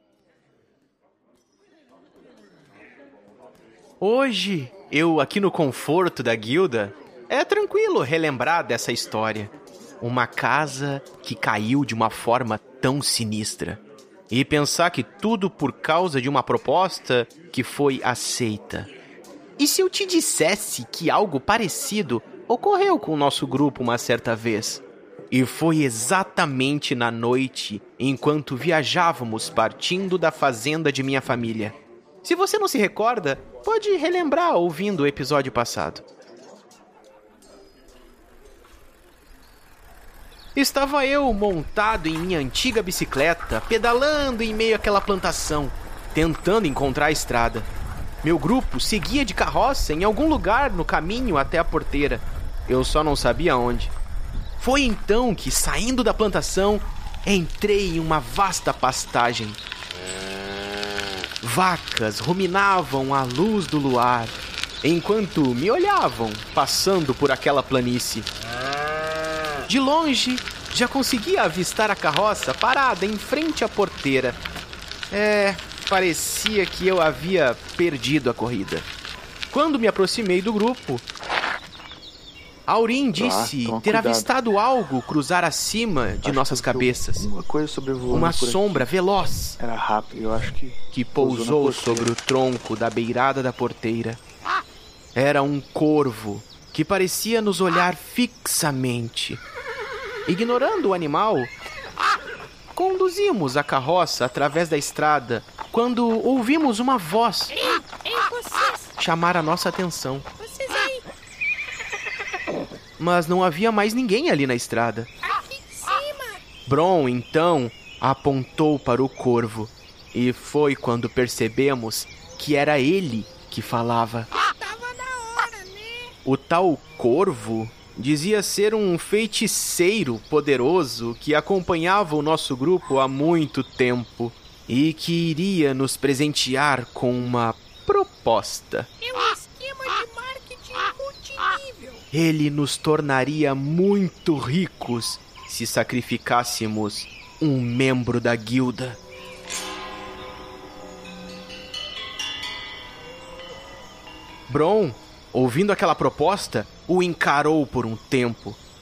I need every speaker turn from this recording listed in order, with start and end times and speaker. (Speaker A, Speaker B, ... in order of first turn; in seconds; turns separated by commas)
Speaker A: 4.0-18.9, Speaker A: 19.6-36.0, Speaker A: 40.5-47.7, Speaker A: 48.2-53.9, Speaker A: 54.6-59.6, Speaker A: 61.4-68.3, Speaker A: 69.7-74.4, Speaker A: 75.1-78.9, Speaker A: 79.5-81.0, Speaker A: 82.7-87.2, Speaker B: 83.2-84.2, Speaker B: 86.2-88.9, Speaker A: 88.1-89.6, Speaker B: 89.6-92.1, Speaker A: 90.9-94.2, Speaker A: 95.1-99.4, Speaker A: 100.2-101.5, Speaker A: 102.7-107.6, Speaker C: 107.5-108.9, Speaker A: 109.0-110.3, Speaker C: 110.4-111.0, Speaker A: 113.0-115.1, Speaker C: 115.2-116.4, Speaker A: 116.6-124.3, Speaker C: 124.3-126.1, Speaker A: 126.2-138.9, Speaker C: 139.0-142.0, Speaker A: 142.1-149.0, Speaker A: 154.5-158.6